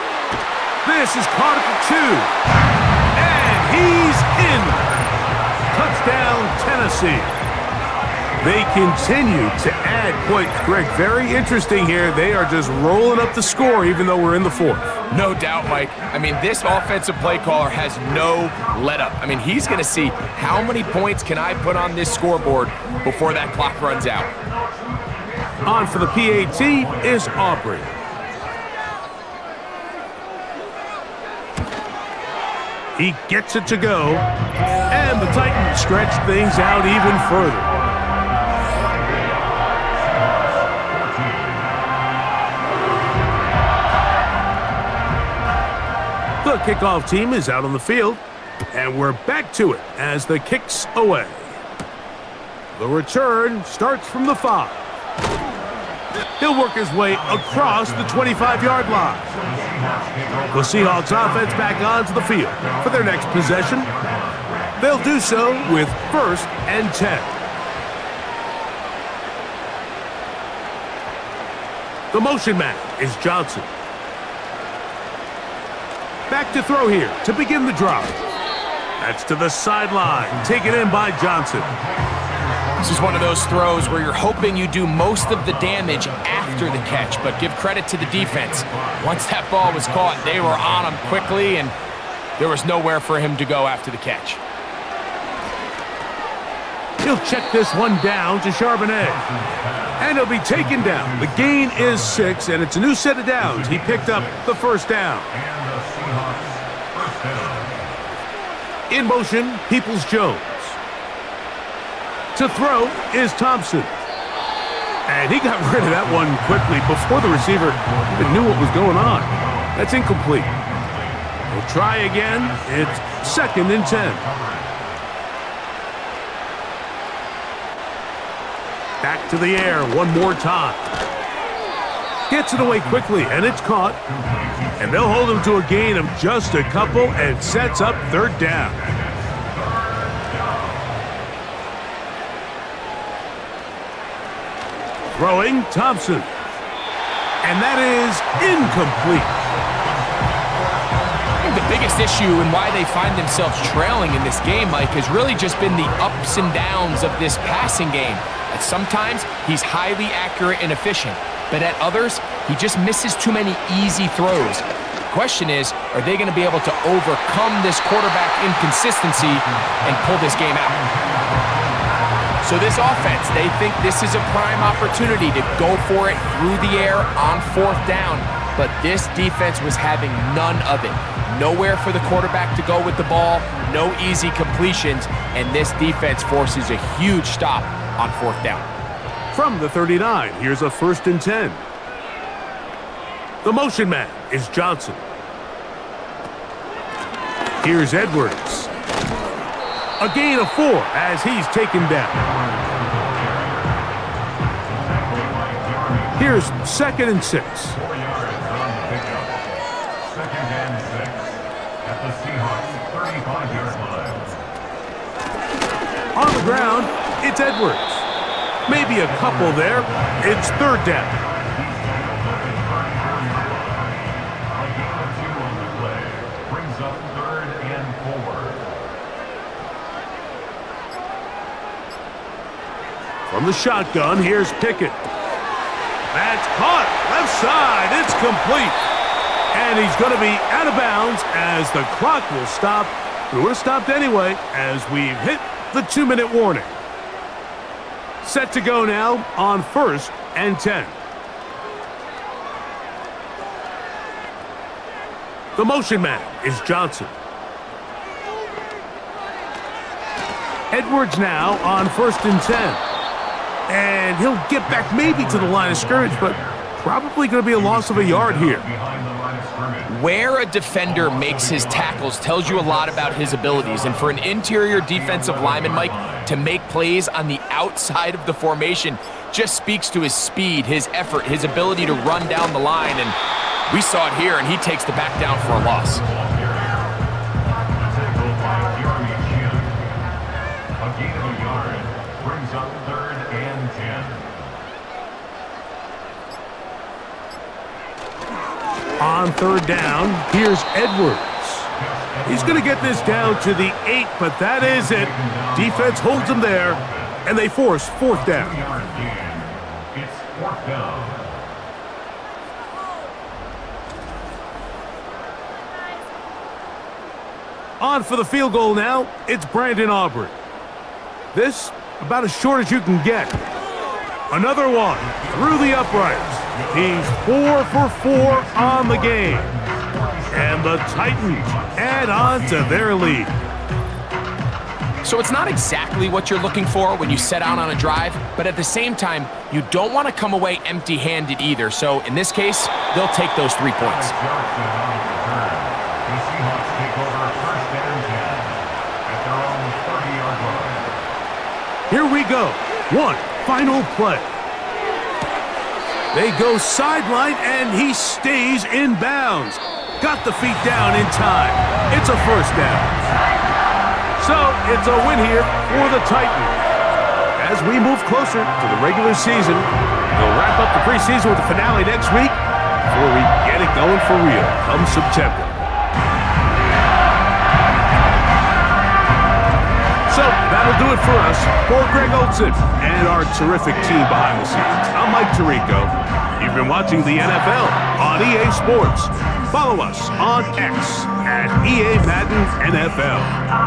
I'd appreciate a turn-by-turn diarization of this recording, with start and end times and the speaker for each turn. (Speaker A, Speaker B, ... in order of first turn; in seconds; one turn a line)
Speaker A: 0.8-2.3
Speaker A: 3.1-5.0
Speaker A: 5.7-7.3
Speaker A: 8.4-14.9
Speaker B: 15.1-24.3
Speaker C: 23.2-28.1
Speaker A: 25.6-27.9
Speaker A: 33.0-34.3
Speaker A: 34.9-37.7
Speaker C: 37.5-41.9
Speaker A: 46.4-48.2
Speaker A: 48.7-51.5
Speaker A: 52.7-54.8
Speaker A: 56.4-59.3
Speaker C: 57.1-62.0
Speaker A: 60.5-63.9
Speaker C: 62.5-64.9
Speaker A: 64.8-67.3
Speaker C: 65.8-66.1
Speaker A: 72.1-73.7
Speaker A: 76.3-78.2
Speaker A: 79.0-81.7
Speaker C: 80.0-84.2
Speaker B: 82.8-91.7
Speaker C: 85.3-91.6
Speaker B: 92.4-94.4
Speaker A: 97.0-99.2
Speaker C: 99.0-102.6
Speaker A: 100.0-105.3
Speaker C: 103.4-104.5
Speaker C: 105.3-108.0
Speaker A: 108.9-110.8
Speaker A: 112.3-113.9
Speaker A: 115.1-120.5
Speaker C: 115.7-121.4
Speaker A: 121.5-124.2
Speaker C: 122.2-124.8
Speaker A: 129.0-130.9
Speaker A: 132.3-134.0
Speaker C: 132.6-135.7
Speaker A: 134.8-138.8
Speaker C: 136.7-141.0
Speaker A: 145.1-146.3
Speaker A: 147.4-149.4
Speaker B: 151.4-170.8
Speaker C: 169.2-172.9
Speaker B: 172.4-188.7
Speaker C: 174.7-175.6
Speaker A: 189.3-191.6
Speaker A: 193.4-195.0
Speaker A: 197.6-198.7
Speaker A: 200.0-202.2
Speaker C: 202.1-203.7
Speaker C: 204.7-206.6
Speaker A: 206.2-207.8
Speaker C: 207.7-209.4
Speaker C: 210.0-214.4
Speaker A: 216.2-218.0
Speaker A: 218.7-221.2
Speaker C: 219.0-228.7
Speaker A: 233.3-235.0
Speaker A: 236.1-238.8
Speaker A: 239.5-246.7
Speaker A: 248.2-251.0
Speaker A: 255.5-257.1
Speaker A: 260.7-262.8
Speaker A: 263.7-268.6
Speaker C: 264.6-266.7
Speaker C: 267.5-270.0
Speaker B: 269.9-283.1
Speaker C: 270.8-276.3
Speaker B: 283.7-286.0
Speaker C: 285.7-286.9
Speaker C: 287.7-290.0
Speaker C: 290.8-294.4
Speaker A: 299.0-301.7
Speaker C: 301.8-303.8
Speaker A: 302.2-308.5
Speaker C: 304.6-307.2
Speaker C: 308.1-311.3
Speaker A: 317.8-320.4
Speaker A: 321.3-323.3
Speaker A: 324.3-329.5
Speaker C: 325.0-332.9
Speaker A: 330.3-333.3
Speaker B: 335.0-344.1
Speaker C: 343.8-351.1
Speaker A: 351.9-354.4
Speaker A: 356.1-363.0
Speaker A: 364.2-366.7
Speaker A: 367.4-375.6
Speaker A: 380.1-393.3